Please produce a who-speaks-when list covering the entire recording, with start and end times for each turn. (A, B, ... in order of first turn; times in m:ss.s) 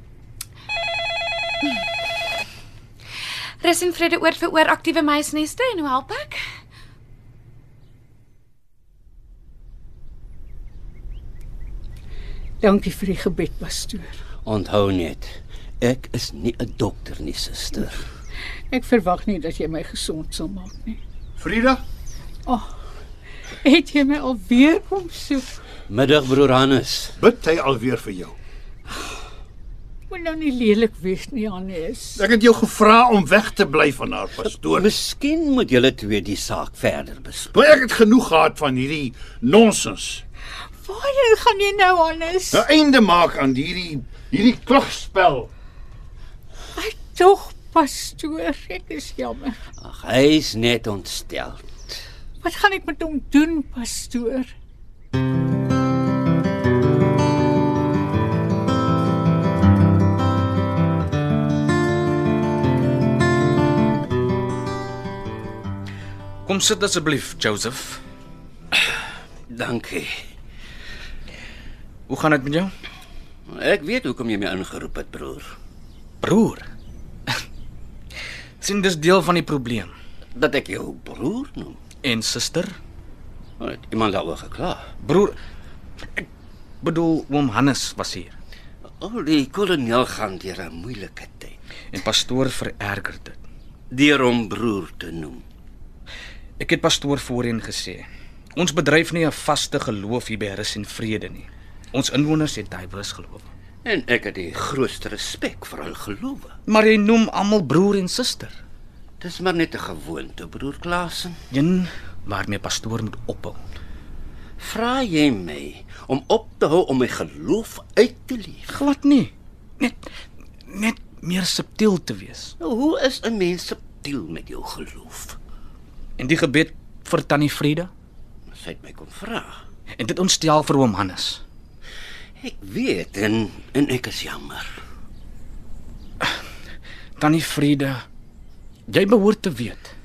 0:03.6-0:06.4 A
0:12.6-0:14.2 B
0:14.4-0:18.1 C
0:18.7-0:21.0 B
0:21.4-0:21.8 D
0:23.6-0:25.6 B
0:25.9-0:27.2 C
0:27.2-0:28.4 D
0:30.1-0:32.2 B
0:32.2-0:34.9 D
0:34.7-0:37.5 C
0:37.5-0:40.2 D
0:40.8-0:42.7 B
0:42.5-0:45.5 D
0:46.8-0:49.6 B
0:49.8-0:52.0 C
0:52.4-0:54.5 B
1:06.4-1:08.0 E
1:09.5-1:10.1 C
1:12.1-1:12.7 E
1:13.5-1:15.5 C
1:16.2-1:16.7 E
1:18.6-1:19.9 E
1:20.4-1:21.8 C
1:22.0-1:22.8 E
1:23.6-1:24.9 C
1:25.0-1:25.4 E
1:26.8-1:28.4 E
1:28.9-1:31.6 C
1:31.9-1:33.4 E
1:33.9-1:35.4 C
1:36.6-1:43.5 E
1:43.8-1:46.5 C
1:46.7-1:48.6 E
1:49.2-1:51.4 C
1:51.5-1:53.6 E
1:54.6-1:58.8 C
1:58.7-2:00.0 E
2:00.7-2:02.5 E
2:02.6-2:05.4 C
2:06.2-2:07.9 E
2:08.5-2:09.6 C
2:10.0-2:11.4 E
2:12.4-2:14.7 C
2:17.2-2:18.0 E
2:18.9-2:19.9 E